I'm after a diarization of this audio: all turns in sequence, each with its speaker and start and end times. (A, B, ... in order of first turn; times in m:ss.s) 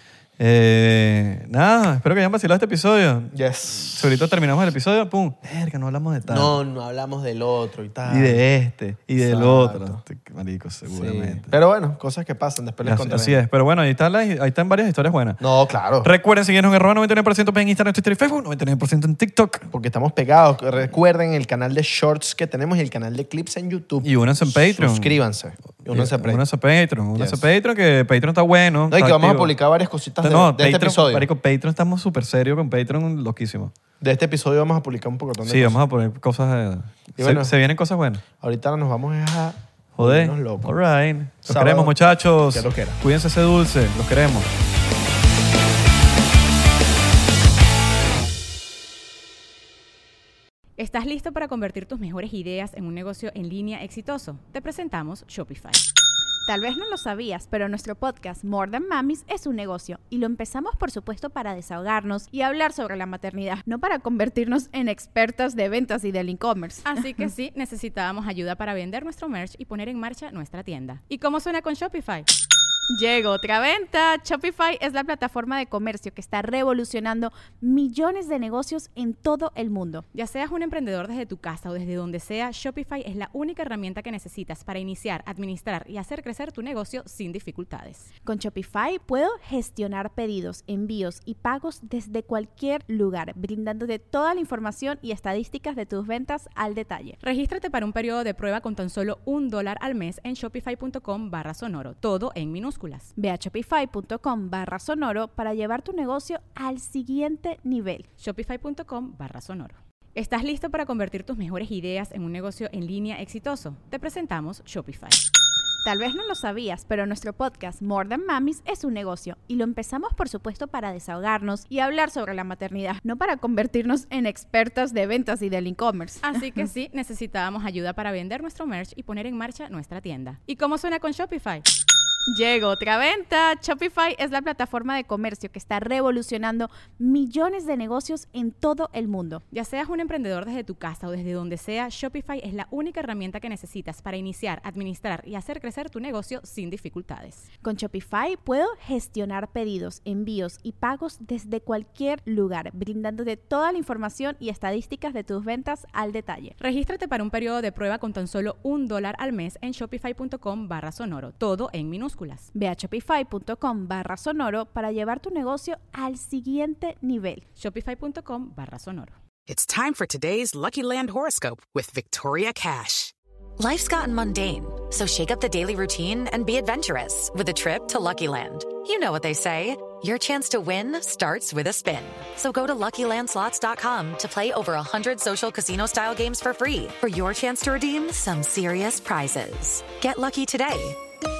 0:00.4-0:06.6 A
0:03.3-0:04.1 B
0:06.3-0:08.4 B
0:08.1-0:11.5 A
0:09.2-0:10.0 B
0:10.9-0:13.4 B
0:12.8-0:15.4 A
0:15.4-0:16.1 B
0:16.0-0:19.7 A
0:19.7-0:26.4 B
0:24.0-0:25.2 A
0:25.9-0:29.5 A
0:28.9-0:31.3 B
0:30.2-0:33.7 A
0:34.0-0:35.8 B
0:35.4-0:38.2 A
0:37.2-0:37.5 B
0:38.4-0:40.8 B
0:40.0-0:44.5 A
0:41.4-0:42.0 B
0:42.5-0:43.0 B
0:50.8-0:55.8 C
0:56.5-1:07.0 D
1:06.8-1:12.3 C
1:12.9-1:20.0 D
1:20.1-1:28.1 C
1:28.3-1:37.2 D
1:37.2-1:43.1 C
1:43.2-1:48.1 D
1:48.2-1:55.2 C
1:55.8-2:06.3 D
2:06.2-2:11.6 C
2:12.3-2:19.4 D
2:19.5-2:27.5 C
2:27.6-2:36.6 D
2:36.6-2:42.5 C
2:42.6-2:47.4 D
2:47.6-2:49.1 C
2:49.5-2:53.1 E
2:53.6-3:11.0 F